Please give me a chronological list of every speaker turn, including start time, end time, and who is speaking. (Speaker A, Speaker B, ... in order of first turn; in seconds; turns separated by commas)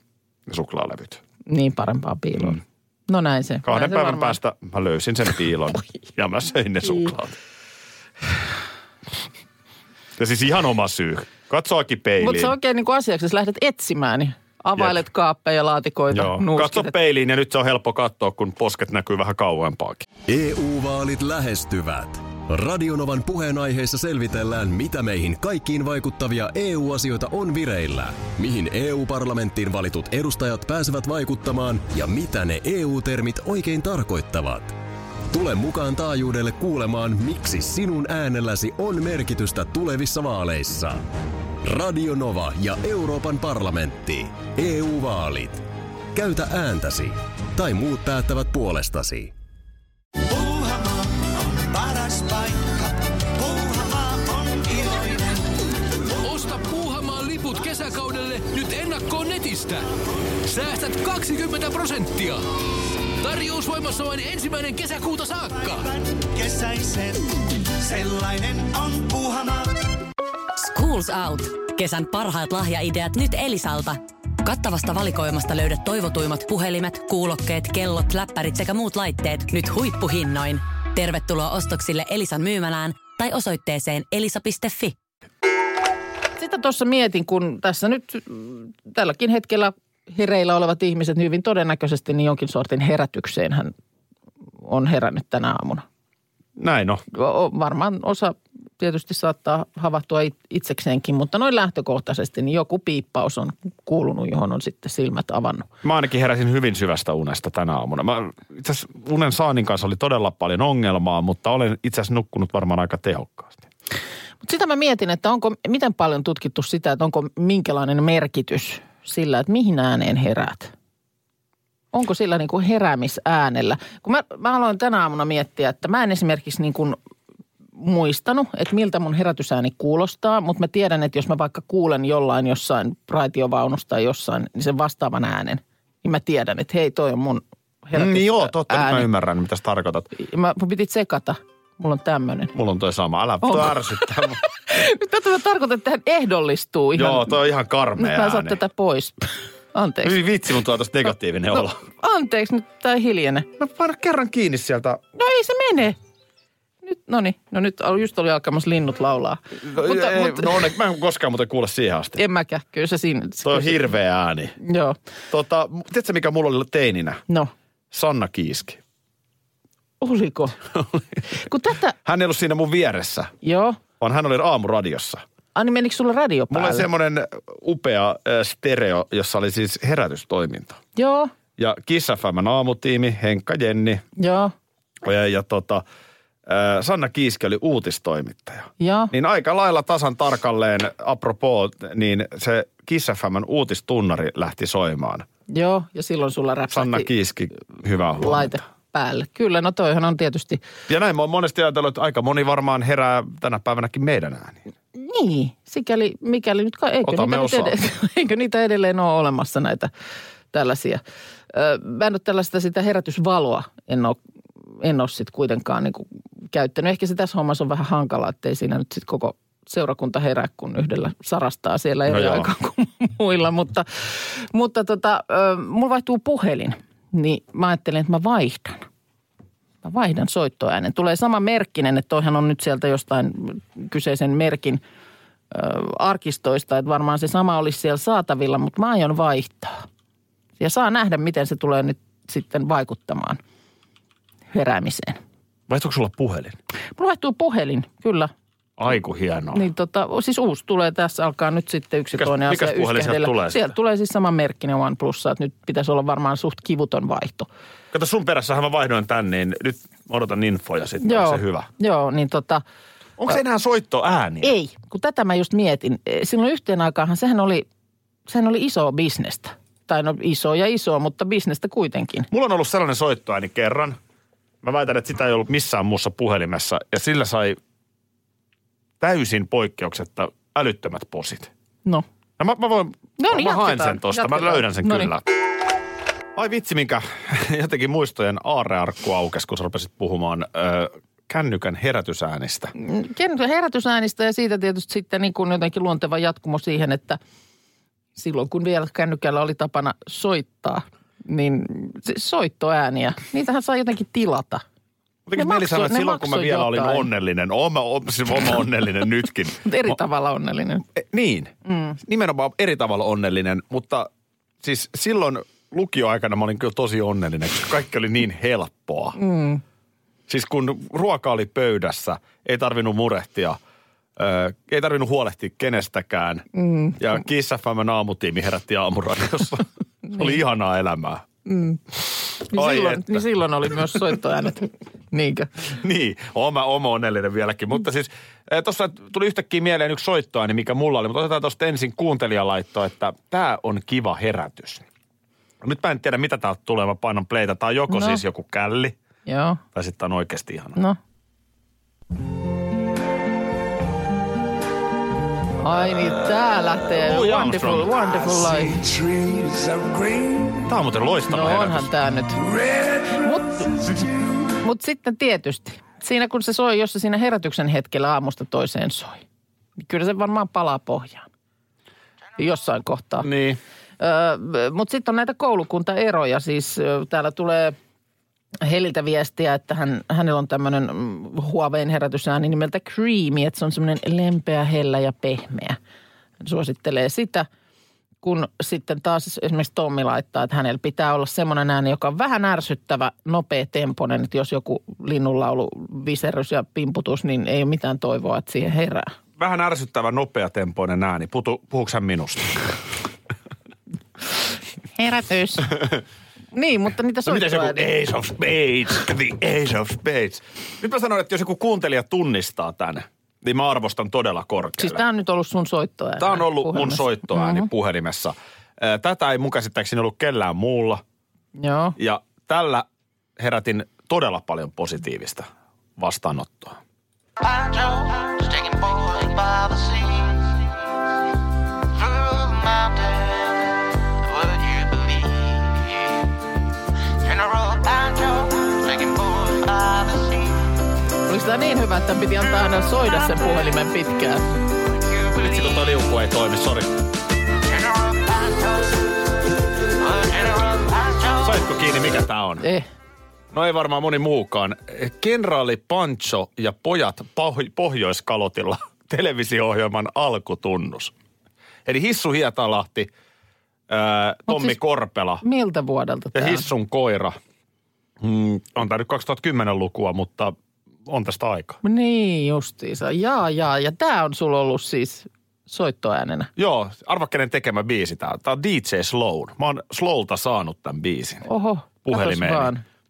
Speaker A: 0.5-1.2, Speaker B: 1.4-4.4, Speaker A: 3.6-7.3, Speaker A: 10.2-12.5, Speaker B: 12.2-16.9, Speaker A: 16.1-20.1, Speaker C: 20.3-34.7, Speaker C: 35.3-41.0, Speaker C: 41.6-49.3, Speaker D: 50.2-55.5, Speaker E: 56.2-59.9, Speaker E: 60.4-62.4, Speaker E: 63.2-65.9, Speaker D: 65.5-69.8, Speaker F: 70.6-85.0, Speaker B: 86.4-93.7, Speaker B: 94.6-95.8, Speaker A: 96.6-97.0, Speaker B: 97.1-105.7, Speaker A: 105.8-113.7, Speaker B: 114.4-120.7, Speaker B: 121.9-127.0, Speaker B: 127.8-139.1, Speaker A: 137.9-140.1, Speaker B: 140.1-142.5, Speaker A: 142.5-144.4, Speaker B: 143.4-147.4, Speaker A: 146.9-148.6, Speaker B: 148.0-150.2, Speaker A: 150.0-151.8, Speaker B: 151.6-153.5, Speaker A: 153.6-155.0, Speaker B: 155.2-155.9, Speaker B: 156.8-160.7, Speaker A: 159.6-162.2, Speaker B: 162.2-163.8, Speaker A: 163.4-164.5, Speaker B: 164.6-165.0, Speaker A: 165.3-167.2, Speaker A: 167.9-168.8, Speaker B: 170.0-170.6, Speaker A: 170.7-171.2, Speaker B: 171.3-171.9, Speaker A: 172.0-173.3, Speaker B: 173.4-173.8, Speaker A: 174.0-175.2, Speaker B: 175.5-176.9, Speaker A: 176.5-180.8, Speaker B: 180.9-181.3, Speaker A: 181.6-184.0, Speaker B: 184.2-184.5, Speaker A: 185.0-185.8, Speaker A: 186.4-195.3, Speaker B: 188.8-189.1, Speaker B: 195.5-197.1, Speaker A: 196.7-198.6, Speaker B: 198.2-200.6, Speaker A: 200.9-204.6, Speaker B: 204.9-209.9, Speaker A: 207.0-207.8, Speaker B: 210.5-214.2, Speaker B: 214.8-228.8, Speaker A: 222.1-222.5, Speaker B: 229.8-234.8, Speaker B: 235.5-239.8, Speaker B: 240.6-243.4, Speaker B: 244.5-245.2, Speaker A: 245.7-246.6, Speaker B: 246.9-248.3, Speaker A: 248.8-249.6, Speaker B: 249.5-257.5, Speaker A: 252.1-253.7, Speaker A: 257.9-261.7, Speaker B: 261.0-262.6, Speaker A: 263.2-264.5, Speaker B: 264.4-267.6, Speaker B: 268.3-272.3, Speaker A: 272.3-274.0, Speaker A: 274.6-277.6, Speaker A: 279.0-281.5, Speaker A: 282.4-285.2, Speaker B: 283.2-285.1, Speaker A: 286.3-292.7, Speaker B: 292.8-297.2, Speaker B: 298.1-304.6, Speaker A: 305.3-309.9, Speaker B: 305.4-307.1, Speaker B: 309.6-310.8, Speaker A: 310.9-314.1, Speaker B: 311.6-312.0, Speaker A: 314.6-319.2, Speaker B: 319.2-319.6, Speaker A: 320.3-323.6, Speaker A: 324.2-326.4, Speaker B: 326.5-327.0, Speaker A: 327.0-331.2, Speaker B: 331.4-331.8, Speaker A: 332.4-333.3, Speaker B: 332.5-335.5, Speaker A: 335.7-344.8, Speaker A: 345.6-348.9, Speaker B: 347.9-348.2, Speaker B: 349.3-349.6, Speaker A: 349.7-350.8, Speaker B: 355.6-358.8, Speaker A: 356.9-358.1, Speaker D: 358.9-360.5, Speaker A: 360.6-361.9, Speaker B: 361.3-362.4, Speaker B: 363.1-363.9, Speaker B: 364.5-369.2, Speaker B: 369.8-371.3, Speaker B: 372.4-373.3, Speaker A: 373.2-373.6, Speaker B: 374.0-377.8, Speaker B: 378.6-385.8, Speaker B: 386.4-387.5, Speaker B: 388.2-399.1, Speaker A: 399.4-402.7, Speaker B: 404.9-405.7, Speaker B: 406.5-407.9, Speaker A: 407.2-415.0, Speaker B: 414.8-417.7, Speaker A: 416.2-421.0, Speaker B: 421.6-422.0, Speaker A: 422.0-426.8, Speaker D: 427.4-430.4, Speaker D: 432.0-433.6, Speaker D: 434.2-436.1, Speaker D: 437.2-440.6, Speaker B: 441.3-444.4, Speaker A: 445.3-446.9, Speaker D: 447.7-449.0, Speaker D: 450.0-451.4, Speaker A: 451.4-452.6, Speaker B: 452.6-452.9, Speaker A: 453.5-461.1, Speaker A: 461.9-463.1, Speaker A: 463.9-465.4, Speaker B: 464.5-464.8, Speaker B: 465.4-466.7, Speaker A: 466.3-467.4, Speaker A: 468.2-470.5, Speaker A: 471.1-471.8, Speaker B: 471.8-476.5, Speaker A: 476.6-481.4, Speaker B: 481.4-482.8, Speaker A: 482.0-482.7